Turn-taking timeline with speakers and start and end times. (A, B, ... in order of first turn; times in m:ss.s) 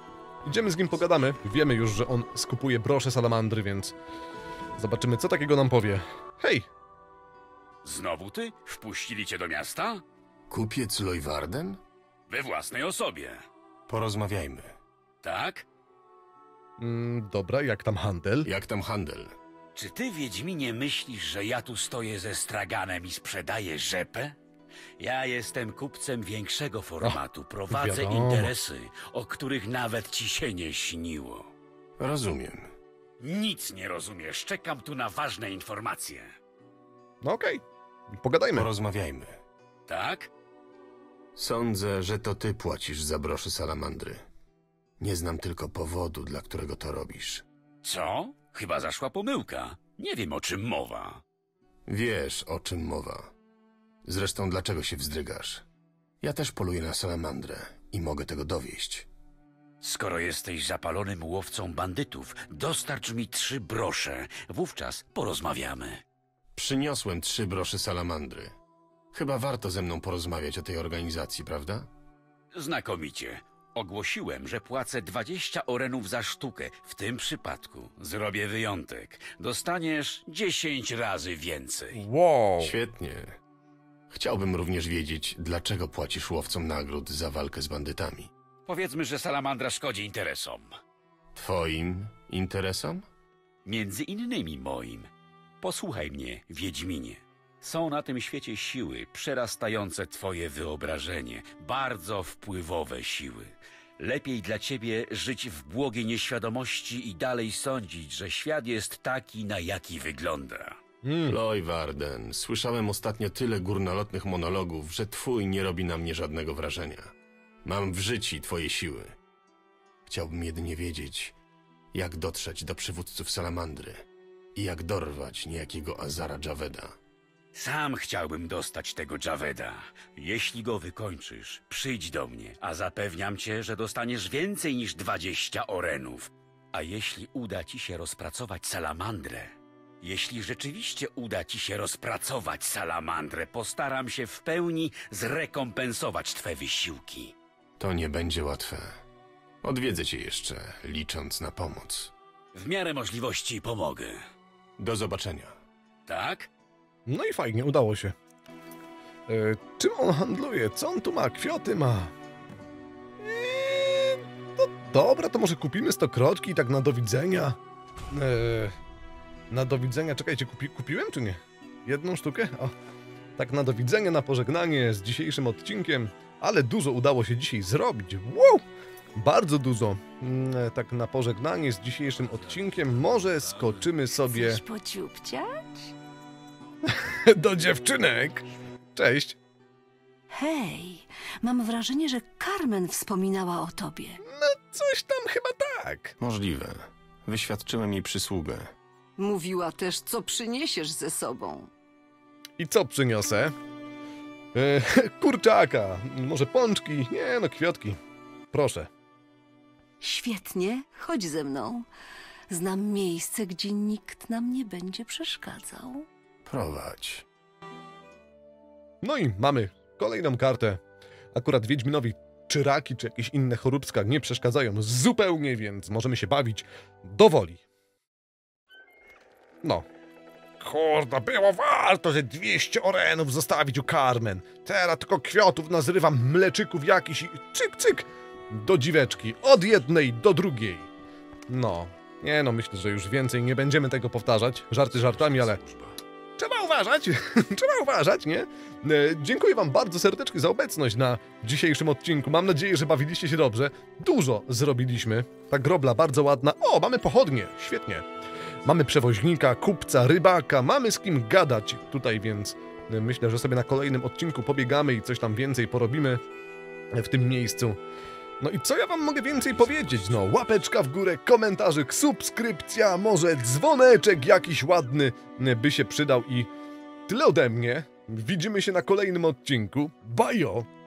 0:00.4-0:03.9 A
0:04.8-0:06.7 A
0:07.8-0:10.0 B
0:10.5-0:11.8 C
0:12.3-0:13.4 B
0:13.9-0:14.7 C
0:15.2-0:15.6 B
0:16.8-0:18.5 A
0:18.4-0:19.3 C
0:19.8-0:24.4 B
0:25.0-0:31.5 B
0:27.0-0:28.5 A
0:32.0-0:32.7 C
0:33.2-0:36.3 B
0:37.2-0:37.6 A
0:38.1-0:38.7 A
0:38.5-0:39.4 C
0:39.9-0:40.3 B
0:41.4-0:44.2 C
0:45.0-0:47.4 C
0:47.8-0:51.2 B
0:51.9-0:53.3 C
0:54.0-0:55.6 C
0:56.2-0:59.1 C
0:59.8-1:06.0 B
1:06.6-1:08.6 C
1:09.1-1:11.9 C
1:12.5-1:22.0 B
1:21.9-1:22.8 A
1:22.6-1:23.4 C
1:24.1-1:28.3 C
1:28.7-1:30.7 B
1:31.4-1:33.1 C
1:33.6-1:35.1 B
1:35.6-1:50.8 B
1:51.0-1:51.4 A
1:51.3-1:57.1 C
1:57.6-1:59.2 C
2:00.1-2:01.4 C
2:01.9-2:07.0 C
2:07.5-2:27.3 B
2:27.8-2:29.0 C
2:29.6-2:32.1 C
2:32.5-2:34.2 B
2:34.8-2:35.6 C
2:36.1-2:36.5 B
2:37.1-2:38.2 A
2:39.3-2:42.1 A
2:43.2-2:47.6 A
2:48.1-2:48.8 A
2:49.5-2:52.7 A
2:53.4-2:58.6 A
2:59.2-3:04.6 A
3:04.2-3:05.9 D
3:06.8-3:08.4 A
3:09.0-3:09.4 A
3:10.3-3:14.2 D
3:14.2-3:16.2 A
3:16.2-3:18.7 C
3:19.2-3:21.7 D
3:22.6-3:23.5 A
3:24.5-3:28.0 A
3:28.5-3:28.9 A
3:30.0-3:31.9 D
3:32.5-3:36.1 D
3:36.4-3:37.2 C
3:39.0-3:40.8 A
3:41.4-3:47.6 A
3:50.6-4:00.9 A
4:01.5-4:05.6 A
4:06.4-4:18.1 A
4:18.6-4:26.2 A
4:26.9-4:27.8 A
4:28.4-4:36.5 A
4:29.5-4:30.3 C
4:37.1-4:40.7 A